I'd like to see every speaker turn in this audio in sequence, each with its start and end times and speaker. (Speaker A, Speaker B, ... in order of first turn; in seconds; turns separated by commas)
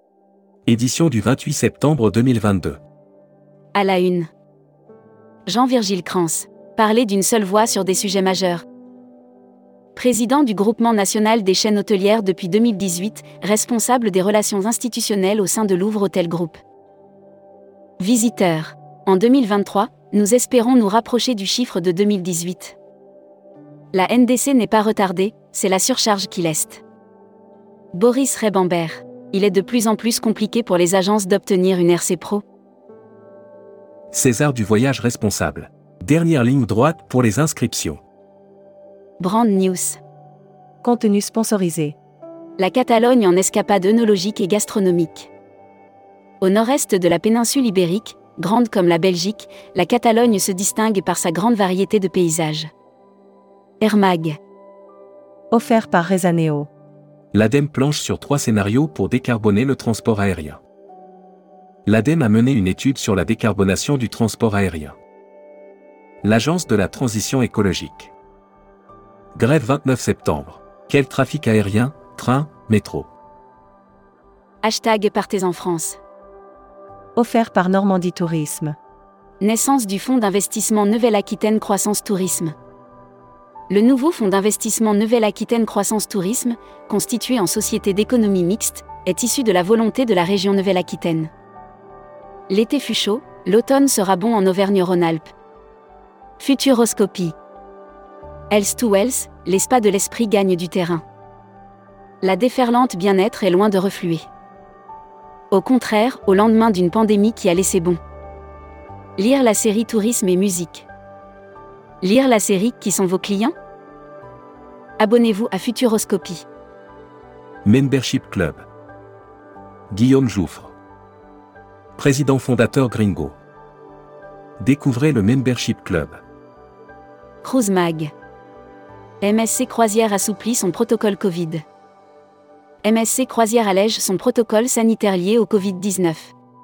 Speaker A: 0.7-2.8, Speaker B: 3.7-4.3, Speaker B: 5.5-8.6, Speaker B: 9.9-16.6, Speaker B: 18.0-22.8, Speaker B: 23.9-26.8, Speaker B: 27.9-32.4, Speaker A: 34.1-38.0, Speaker B: 39.2-40.0, Speaker C: 40.8-42.0, Speaker B: 42.6-45.3, Speaker B: 46.4-52.7, Speaker B: 53.8-54.4, Speaker C: 55.5-56.7, Speaker A: 57.3-60.6, Speaker A: 61.9-65.0, Speaker A: 66.2-68.1, Speaker A: 69.3-73.1, Speaker B: 74.6-76.0, Speaker C: 77.2-78.8, Speaker B: 79.4-82.5, Speaker B: 83.7-91.3, Speaker B: 92.5-95.3, Speaker B: 96.4-97.3, Speaker B: 98.5-101.0, Speaker B: 102.2-104.3, Speaker B: 105.5-108.0, Speaker B: 109.2-110.9, Speaker B: 112.0-113.5, Speaker B: 115.0-116.5, Speaker A: 117.6-118.6, Speaker A: 119.9-120.7, Speaker A: 122.0-123.3, Speaker A: 124.6-126.2, Speaker B: 127.4-128.1, Speaker B: 129.2-131.6, Speaker B: 132.8-136.3